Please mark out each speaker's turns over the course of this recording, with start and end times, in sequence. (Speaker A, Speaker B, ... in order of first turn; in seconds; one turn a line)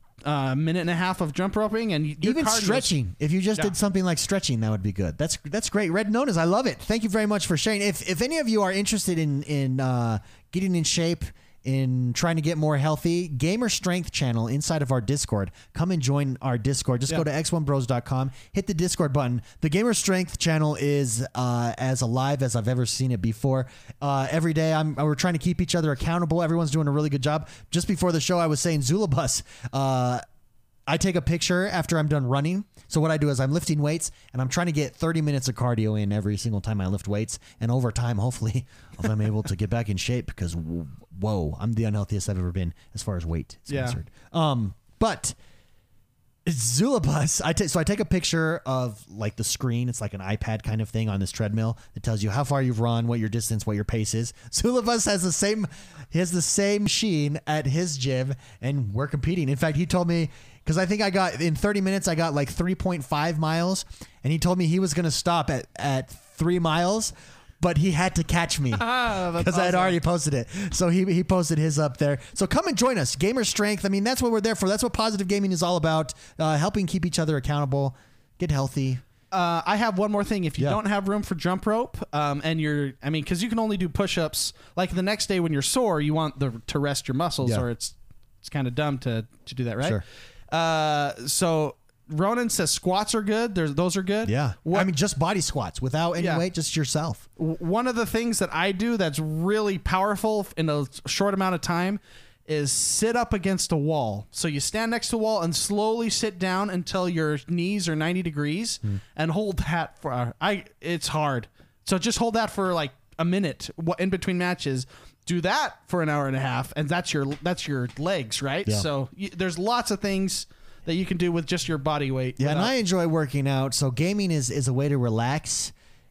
Speaker A: 0.2-2.9
Speaker B: 2.2-30.2
Speaker B: 30.9-45.4
Speaker A: 43.7-44.0
Speaker B: 46.4-79.0
Speaker A: 68.7-70.0
Speaker A: 79.3-94.9
Speaker B: 94.2-97.2
Speaker A: 96.2-96.4
Speaker A: 97.4-122.7
Speaker B: 122.4-125.7